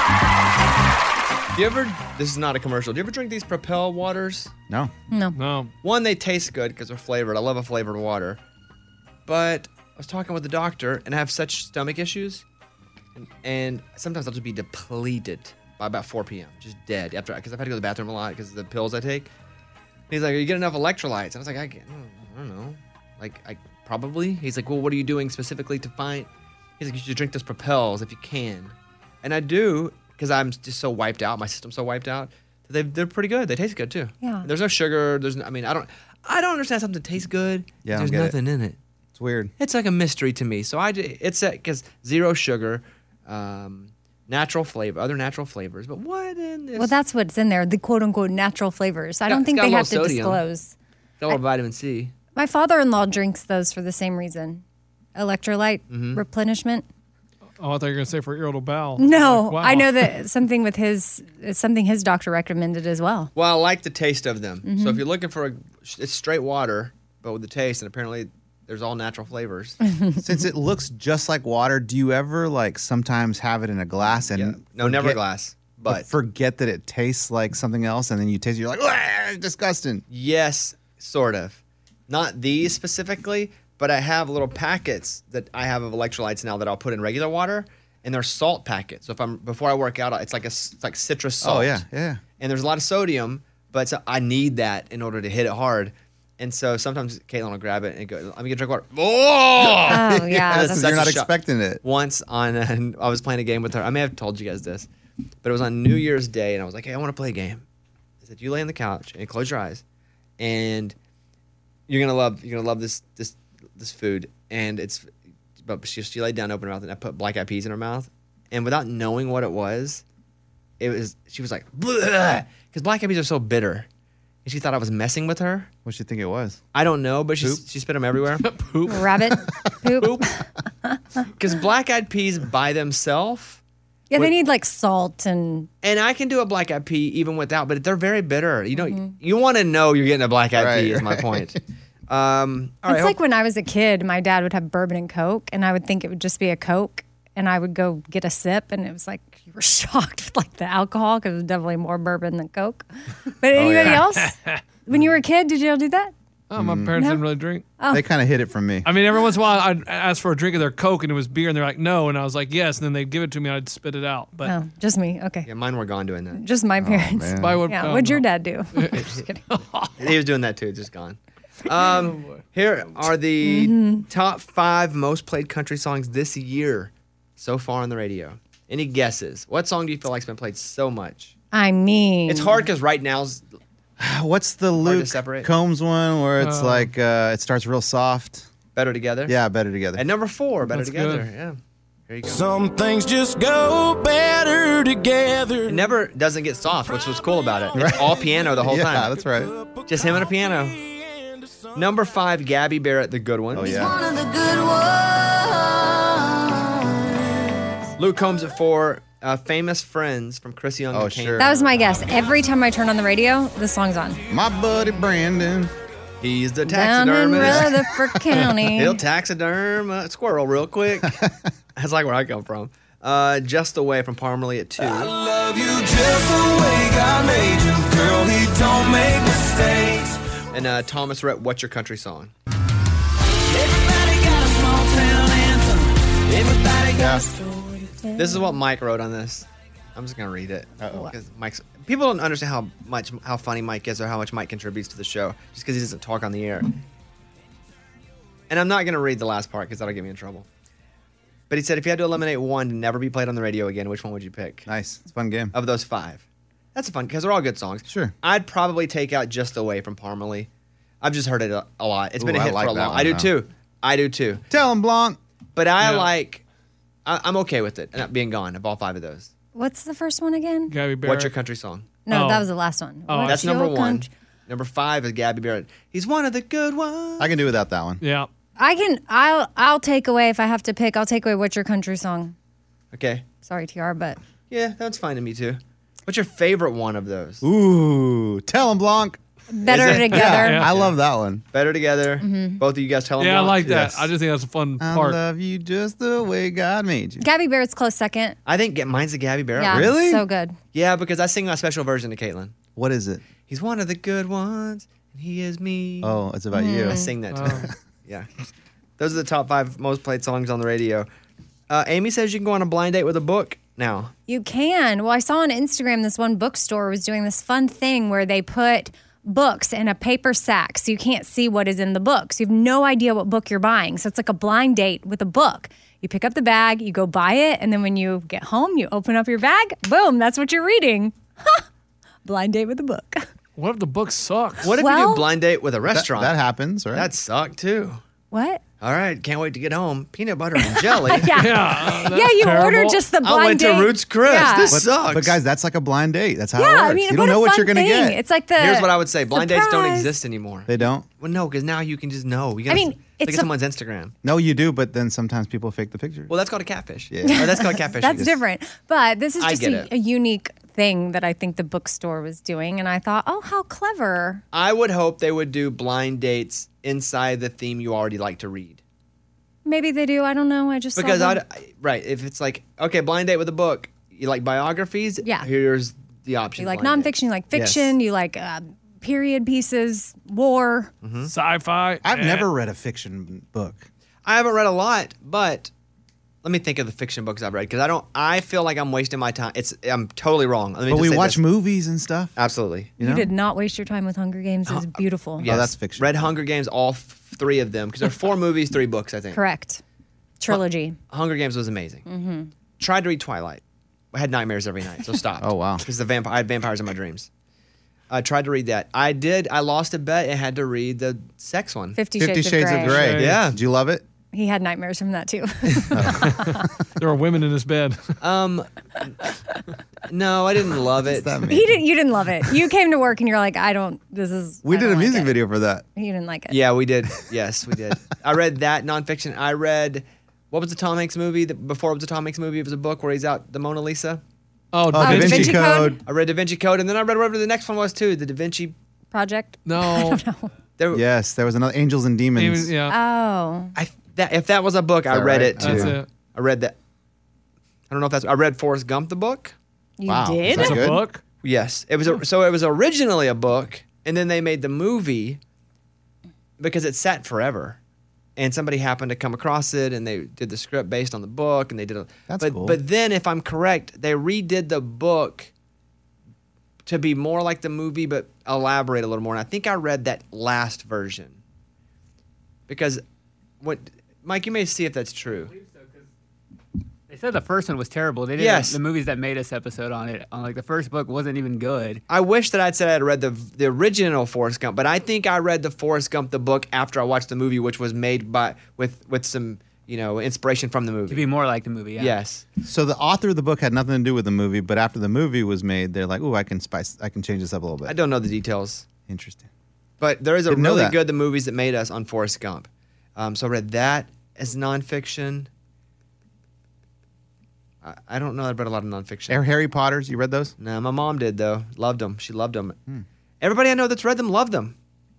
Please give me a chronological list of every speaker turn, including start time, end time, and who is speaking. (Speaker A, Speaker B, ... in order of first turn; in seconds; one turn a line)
Speaker A: 1.5-4.5
Speaker B: 5.1-5.4
Speaker C: 5.3-5.7
Speaker A: 5.8-8.4
Speaker A: 9.2-12.4
Speaker A: 13.2-19.3
Speaker A: 20.1-26.3
Speaker A: 26.8-38.8
Speaker B: 34.2-34.5
Speaker D: 37.8-38.4
Speaker D: 39.1-39.5
Speaker A: 39.6-46.9
Speaker B: 46.8-50.7
Speaker A: 49.3-50.4
Speaker A: 51.2-52.1
Speaker B: 52.3-54.6
Speaker B: 55.1-56.8
Speaker A: 55.9-56.2
Speaker C: 57.6-60.1
Speaker B: 59.0-63.3
Speaker A: 63.4-69.8
Speaker B: 64.6-65.0
Speaker B: 69.8-70.2
Speaker D: 70.2-75.2
Speaker A: 74.3-76.1
Speaker D: 75.8-80.0
Speaker A: 80.1-91.8
Speaker D: 91.4-92.2
Speaker A: 92.4-104.9
Speaker D: 99.6-101.8
Speaker B: 99.9-100.9
Speaker A: 105.4-107.6
Speaker A: 108.2-109.8
Speaker A: 110.4-110.9
Speaker A: 111.9-115.1
Speaker A: 115.6-120.0
Speaker A: 120.8-123.9
Speaker A: 124.4-125.7
Speaker D: 125.8-126.6
Speaker A: 126.7-128.4
Speaker C: 128.4-129.3
Speaker B: 128.8-130.3
Speaker A: 131.4-133.6
Speaker B: 134.1-135.7
Speaker A: 135.8-143.2
Speaker B: 138.8-139.1
Speaker D: 140.5-141.5
Speaker B: 142.8-154.3
Speaker D: 153.6-154.0
Speaker C: 153.8-154.6
Speaker B: 154.8-156.1
Speaker C: 156.5-157.7
Speaker D: 156.6-156.9
Speaker B: 156.9-157.2
Speaker B: 157.8-158.0
Speaker D: 157.9-158.9
Speaker C: 158.8-164.5
Speaker B: 164.4-165.5
Speaker A: 165.4-166.4
Speaker B: 166.3-169.4
Speaker D: 166.8-167.7
Speaker C: 167.4-170.0
Speaker A: 170.0-181.3
Speaker C: 172.0-172.4
Speaker B: 173.4-174.1
Speaker B: 181.5-182.7
Speaker A: 182.3-183.4
Speaker D: 184.0-188.5
Speaker A: 184.8-185.5
Speaker C: 186.4-186.9
Speaker A: 188.7-189.3
Speaker D: 189.3-190.0
Speaker A: 189.9-191.6
Speaker C: 190.7-191.2
Speaker A: 192.1-192.4
Speaker E: 192.2-195.9
Speaker A: 195.7-199.1
Speaker E: 197.0-198.5
Speaker D: 197.8-199.5
Speaker E: 199.3-201.8
Speaker A: 199.9-200.8
Speaker A: 201.7-203.8
Speaker D: 203.5-203.9
Speaker E: 203.6-207.6
Speaker A: 208.0-211.9
Speaker D: 210.9-211.5
Speaker B: 211.4-214.2
Speaker D: 214.3-215.7
Speaker A: 216.2-217.7
Speaker B: 216.7-219.0
Speaker D: 217.4-217.7
Speaker C: 218.3-218.6
Speaker A: 218.7-221.2
Speaker D: 221.0-221.4
Speaker A: 221.7-225.1
Speaker E: 224.8-230.2
Speaker A: 230.5-232.3
Speaker E: 233.4-237.2
Speaker D: 236.9-237.3
Speaker B: 237.0-238.6
Speaker A: 238.2-246.8
Speaker D: 240.8-241.1
Speaker A: 248.5-250.4
Speaker A: 251.5-254.7
Speaker D: 254.7-255.5
Speaker A: 255.5-256.2
Speaker A: 256.7-260.5
Speaker D: 257.9-258.1
Speaker A: 261.0-264.4
Speaker D: 262.2-263.3
Speaker D: 264.5-265.2
Speaker A: 265.6-266.4
Speaker C: 265.8-266.1
Speaker A: 267.1-269.3
Speaker B: 269.5-270.7
Speaker C: 270.7-271.3
Speaker A: 271.0-271.9
Speaker B: 272.1-274.1
Speaker C: 272.1-272.5
Speaker C: 273.1-273.5
Speaker A: 273.3-277.4
Speaker D: 277.2-278.0
Speaker C: 278.0-278.3
Speaker B: 278.6-282.3
Speaker A: 282.9-283.2
Speaker B: 283.4-284.2
Speaker A: 284.5-287.4
Speaker D: 287.4-289.2
Speaker B: 289.5-290.6
Speaker A: 289.6-290.9
Speaker D: 289.9-291.4
Speaker C: 290.4-290.7
Speaker A: 291.5-294.0
Speaker B: 292.2-292.6
Speaker C: 293.2-295.2
Speaker D: 294.8-297.2
Speaker B: 297.2-298.4
Speaker A: 298.4-299.9
Speaker B: 299.6-300.6
Speaker D: 299.7-300.2
Speaker A: 300.7-302.5
Speaker D: 302.8-303.2
Speaker A: 303.5-306.2
Speaker D: 306.0-307.7
Speaker B: 306.5-307.1
Speaker A: 306.9-308.3
Speaker C: 307.3-307.7
Speaker A: 309.0-311.1
Speaker A: 311.7-314.1
Speaker B: 314.3-331.6
Speaker B: 332.2-333.2
Speaker C: 333.6-334.7
Speaker A: 334.6-336.4
Speaker B: 334.8-335.3
Speaker D: 335.9-337.1
Speaker A: 336.9-338.0
Speaker B: 338.3-338.6
Speaker A: 338.8-341.4
Speaker B: 340.6-344.8
Speaker C: 341.3-343.0
Speaker A: 343.2-345.4
Speaker D: 344.7-348.2
Speaker B: 346.5-350.1
Speaker A: 348.6-354.1
Speaker D: 350.7-351.1
Speaker B: 352.7-353.5
Speaker D: 354.2-356.3
Speaker A: 356.3-358.4
Speaker D: 357.1-358.3
Speaker B: 357.2-364.4
Speaker A: 359.4-359.9
Speaker A: 364.5-368.8
Speaker B: 369.6-371.4
Speaker A: 370.9-377.9
Speaker B: 376.6-380.9
Speaker A: 381.0-381.3
Speaker C: 381.2-382.5
Speaker D: 382.0-383.9
Speaker A: 384.2-385.7
Speaker A: 386.4-391.4
Speaker D: 390.9-392.3
Speaker A: 392.4-392.9
Speaker D: 393.0-393.3
Speaker B: 393.0-395.4
Speaker A: 394.7-399.4
Speaker D: 395.4-396.2
Speaker B: 399.3-399.8
Speaker B: 400.4-401.0
Speaker A: 400.5-402.0
Speaker B: 402.1-402.5
Speaker A: 402.8-403.6
Speaker A: 404.1-407.3
Speaker D: 405.4-405.8
Speaker A: 408.1-412.0
Speaker B: 411.9-413.1
Speaker D: 412.2-414.0
Speaker C: 412.9-413.4
Speaker A: 413.2-413.6
Speaker B: 414.3-416.7
Speaker D: 415.9-416.4
Speaker C: 416.2-418.2
Speaker A: 418.2-419.1
Speaker A: 420.1-421.4
Speaker D: 421.1-421.8
Speaker B: 421.5-425.4
Speaker D: 424.6-425.8
Speaker B: 425.9-426.6
Speaker A: 426.5-434.2
Speaker C: 434.7-435.6
Speaker D: 434.9-436.0
Speaker B: 435.0-436.0
Speaker A: 436.0-438.7
Speaker B: 439.1-440.5
Speaker C: 439.6-440.2
Speaker A: 440.8-441.0
Speaker D: 440.9-442.7
Speaker C: 442.4-442.9
Speaker B: 442.9-443.7
Speaker A: 443.8-446.7
Speaker D: 445.1-445.9
Speaker C: 445.6-446.1
Speaker A: 447.9-449.5
Speaker B: 450.0-450.9
Speaker D: 450.1-451.0
Speaker C: 450.5-451.2
Speaker A: 451.4-455.4
Speaker A: 456.6-457.8
Speaker A: 458.4-465.5
Speaker D: 462.3-462.8
Speaker A: 466.9-471.4
Speaker A: 472.7-473.0
Speaker A: 473.6-475.5
Speaker F: 475.3-476.1
Speaker F: 477.1-482.0
Speaker A: 478.4-478.8
Speaker A: 482.1-491.3
Speaker F: 491.1-492.1
Speaker A: 492.0-492.4
Speaker D: 492.6-497.9
Speaker A: 497.9-498.9
Speaker D: 499.1-499.4
Speaker A: 500.0-505.5
Speaker D: 500.5-501.0
Speaker A: 507.8-509.4
Speaker D: 509.3-510.5
Speaker A: 510.6-512.8
Speaker A: 513.4-514.7